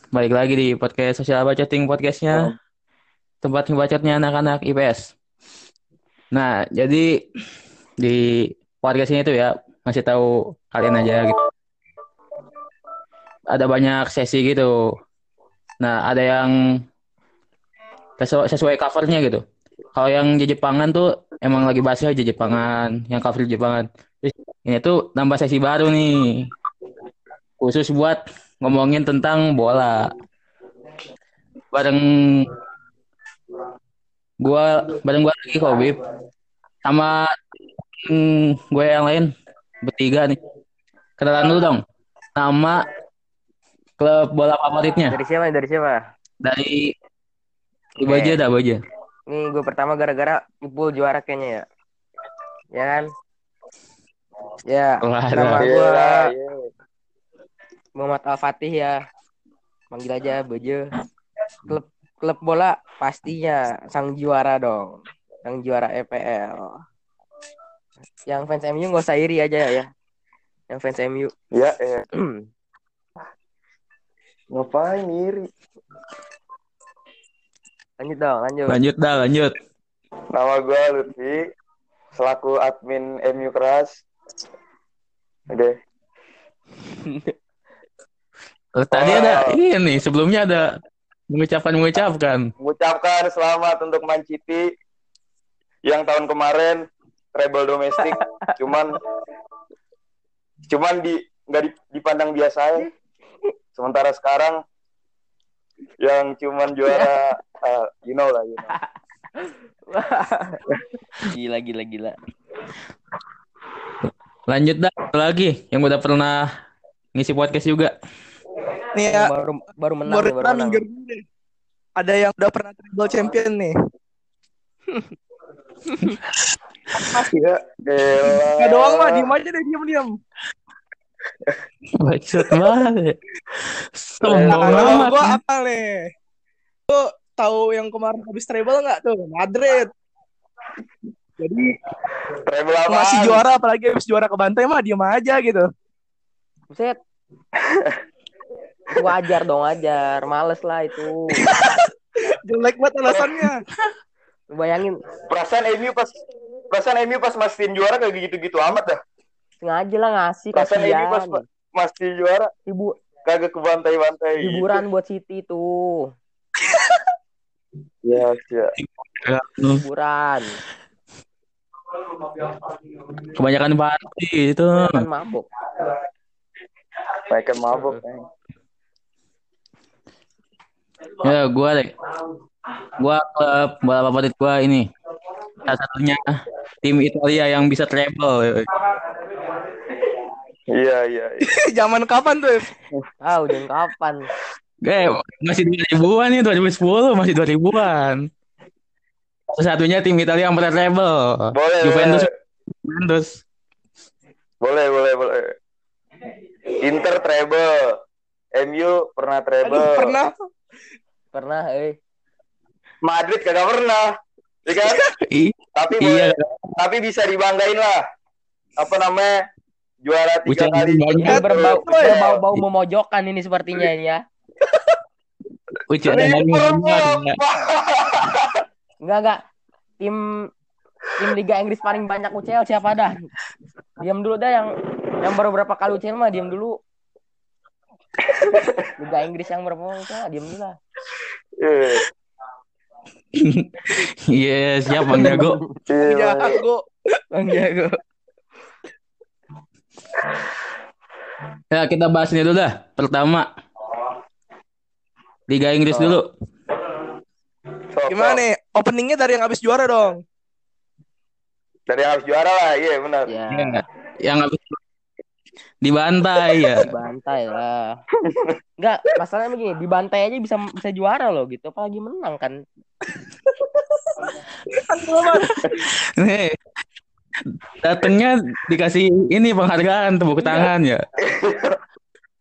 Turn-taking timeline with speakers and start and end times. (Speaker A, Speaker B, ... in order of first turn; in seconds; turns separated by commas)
Speaker A: 0.1-2.5, Speaker A: 3.4-5.1, Speaker A: 6.3-7.1, Speaker A: 8.0-11.4, Speaker A: 13.5-14.9, Speaker A: 15.8-16.5, Speaker A: 18.2-19.4, Speaker A: 19.9-26.5, Speaker A: 27.6-30.1, Speaker A: 31.7-32.5, Speaker A: 34.4-36.0, Speaker A: 36.8-37.4, Speaker A: 38.0-39.3, Speaker A: 39.8-40.4, Speaker A: 41.2-41.8, Speaker A: 42.4-42.8, Speaker A: 44.0-45.2, Speaker B: 45.1-46.0, Speaker A: 46.4-46.9, Speaker A: 48.0-48.8, Speaker B: 48.0-48.4, Speaker B: 49.3-51.7, Speaker B: 52.7-53.1, Speaker B: 54.7-56.3, Speaker A: 55.0-55.6, Speaker C: 55.6-56.7, Speaker B: 58.0-59.0, Speaker B: 59.9-60.9, Speaker B: 61.7-66.8, Speaker B: 68.3-69.9, Speaker B: 70.7-71.3, Speaker C: 71.5-72.0, Speaker B: 72.1-72.5, Speaker C: 74.5-75.5, Speaker B: 78.0-78.8, Speaker A: 78.7-79.6, Speaker C: 80.3-81.5, Speaker C: 82.1-84.0, Speaker C: 85.5-85.8, Speaker B: 87.0-87.3, Speaker A: 88.8-90.7, Speaker C: 88.9-89.6, Speaker A: 91.3-92.5, Speaker C: 92.6-94.7, Speaker C: 95.8-99.0, Speaker B: 98.2-98.5, Speaker C: 100.7-102.9, Speaker C: 103.8-104.6, Speaker C: 106.0-108.7, Speaker B: 109.4-110.6, Speaker B: 111.2-112.2, Speaker A: 114.5-116.5, Speaker A: 117.2-117.9, Speaker D: 119.0-119.3, Speaker B: 119.1-120.8, Speaker D: 120.1-121.2, Speaker D: 122.0-123.7, Speaker D: 125.9-126.2, Speaker D: 126.9-127.3, Speaker C: 127.3-129.3, Speaker D: 128.6-130.2, Speaker A: 131.9-135.4, Speaker C: 134.2-135.1, Speaker D: 134.5-136.1, Speaker D: 136.9-139.9, Speaker D: 141.4-141.8, Speaker C: 142.4-143.4, Speaker D: 142.9-145.7, Speaker B: 146.7-147.0, Speaker C: 147.6-148.0, Speaker B: 148.9-151.5, Speaker D: 151.4-153.6, Speaker B: 154.5-155.0, Speaker C: 155.3-156.2, Speaker C: 156.7-159.0, Speaker B: 159.6-161.4, Speaker C: 160.5-162.5, Speaker B: 162.7-163.0, Speaker C: 163.2-164.8, Speaker B: 164.4-166.1, Speaker C: 168.0-168.7, Speaker A: 168.8-169.8, Speaker B: 169.8-170.6, Speaker A: 173.2-175.0, Speaker B: 174.8-175.5, Speaker C: 177.3-178.3, Speaker A: 181.2-182.0, Speaker A: 183.0-184.9, Speaker A: 185.6-188.8, Speaker C: 190.7-191.5, Speaker D: 191.4-192.7, Speaker B: 193.2-194.3, Speaker A: 194.8-198.3, Speaker A: 199.5-203.4, Speaker C: 201.5-202.3, Speaker C: 204.6-205.6, Speaker C: 206.8-208.0, Speaker C: 208.6-210.2, Speaker D: 209.6-210.3, Speaker B: 211.3-212.0, Speaker C: 213.0-214.1, Speaker C: 214.7-215.1, Speaker A: 215.2-216.5, Speaker C: 215.8-218.0, Speaker C: 218.8-219.3, Speaker C: 220.0-222.2, Speaker A: 220.5-221.4, Speaker D: 221.2-222.2, Speaker B: 221.3-224.2, Speaker A: 225.9-227.4, Speaker C: 226.1-228.6, Speaker B: 229.0-229.4, Speaker B: 230.0-230.5, Speaker B: 231.2-233.2, Speaker B: 234.0-236.8, Speaker C: 238.5-238.8, Speaker B: 239.0-240.8, Speaker C: 241.6-242.1, Speaker A: 243.3-245.6, Speaker B: 245.1-245.8, Speaker C: 245.9-246.6, Speaker D: 246.0-246.8, Speaker B: 247.3-248.0, Speaker A: 251.7-253.5, Speaker A: 255.5-256.3, Speaker B: 255.9-256.2, Speaker C: 257.9-258.4, Speaker D: 258.1-260.2, Speaker C: 261.9-263.3, Speaker B: 263.3-263.8, Speaker A: 263.5-264.8, Speaker A: 265.8-266.9, Speaker B: 266.8-268.0, Speaker C: 268.3-268.6, Speaker B: 268.8-272.6, Speaker D: 273.8-275.8, Speaker A: 275.3-276.6, Speaker A: 277.5-281.0, Speaker D: 280.4-280.7, Speaker C: 281.2-281.8